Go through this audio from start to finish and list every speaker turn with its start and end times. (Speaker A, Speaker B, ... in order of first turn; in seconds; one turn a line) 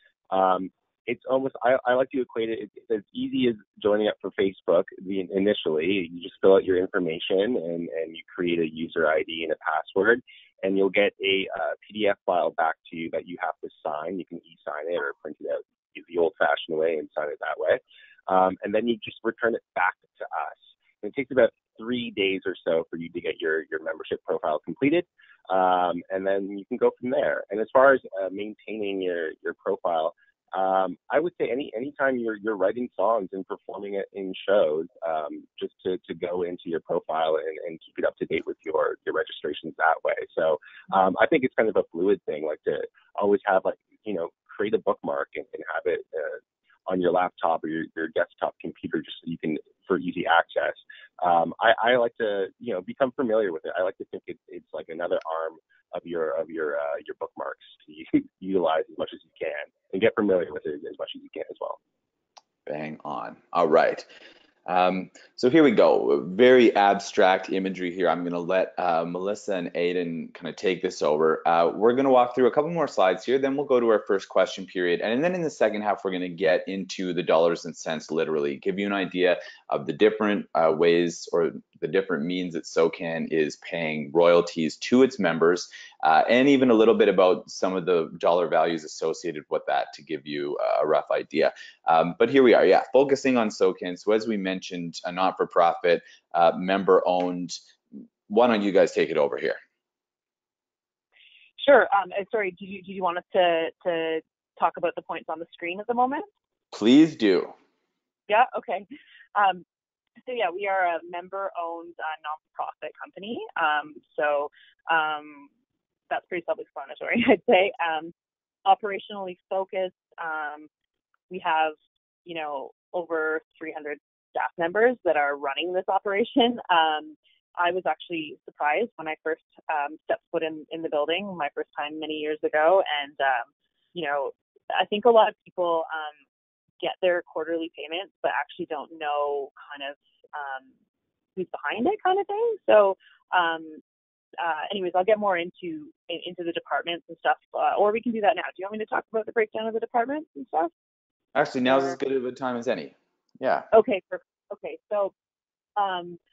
Speaker A: 0.3-61.8
Speaker B: 62.7-64.1
Speaker B: 64.7-97.6
Speaker B: 98.3-99.6
Speaker C: 101.6-106.3
Speaker B: 106.7-107.5
Speaker C: 108.3-109.7
Speaker C: 110.2-115.5
Speaker C: 116.1-118.1
Speaker C: 118.7-120.7
Speaker C: 121.3-136.2
Speaker C: 136.8-140.7
Speaker C: 141.4-143.8
Speaker C: 144.4-150.7
Speaker B: 151.3-153.7
Speaker C: 151.7-152.0
Speaker C: 153.7-155.1
Speaker C: 155.8-156.2